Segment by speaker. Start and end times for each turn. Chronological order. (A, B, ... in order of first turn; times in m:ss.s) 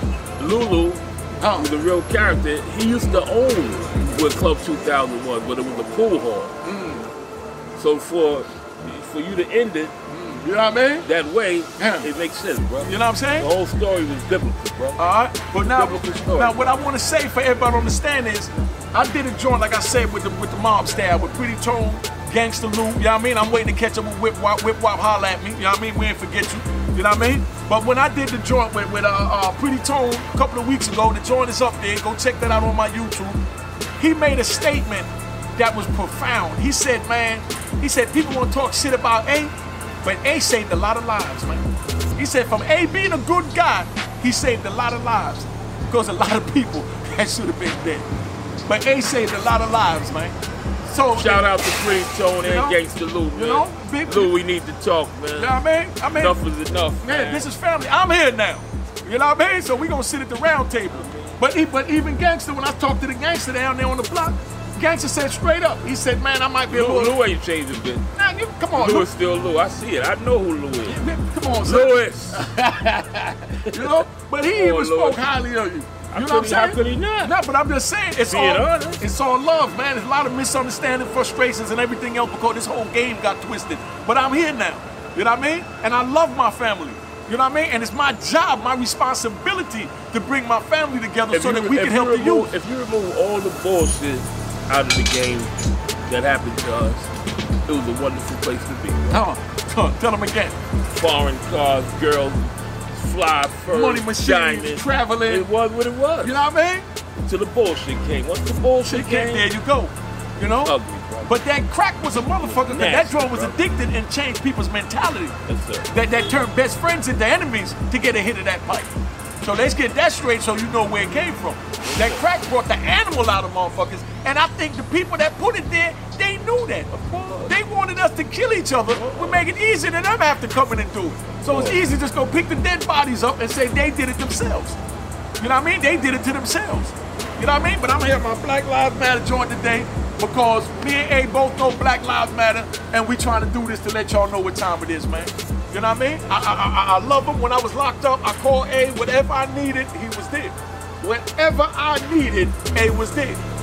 0:00.4-0:06.5 A
0:06.6-0:07.1 B
0:07.7-0:09.9 A
0:10.1-0:11.0 B
0:11.0-0:16.6 A
0:11.8-0:12.1 B
0:12.8-0:13.5 B
0:15.0-0:33.4 B
0:34.0-0:39.5 B
0:40.0-0:41.6 B
0:42.2-0:48.1 B
0:48.6-0:51.4 B
0:51.1-0:55.6 A
0:52.5-0:52.8 B
0:53.3-0:54.3 B
0:55.4-0:56.3 B
0:56.1-0:57.5 A
0:57.0-1:07.2 B
1:00.9-1:01.4 A
1:06.7-1:08.0 A
1:08.1-1:09.1 B
1:08.7-1:11.0 A
1:10.9-1:12.8 B
1:11.6-1:12.5 A
1:13.0-1:15.2 A
1:13.7-1:32.4 B
1:16.1-1:17.3 A
1:18.2-1:19.0 A
1:31.3-1:35.5 A
1:36.0-1:37.1 A
1:37.6-1:39.2 A
1:39.1-1:40.5 B
1:40.8-1:46.4 A
1:43.7-1:45.4 B
1:46.2-1:46.8 B
1:47.2-1:49.5 A
1:48.8-1:50.7 B
1:50.6-1:51.4 A
1:51.2-1:55.3 B
1:52.4-1:53.6 A
1:55.4-1:55.9 A
1:55.9-1:58.9 B
1:59.4-2:06.9 B
2:01.8-2:02.2 A
2:06.9-2:07.5 A
2:07.5-2:14.8 B
2:08.9-2:09.4 A
2:11.4-2:11.8 A
2:15.4-2:33.4 B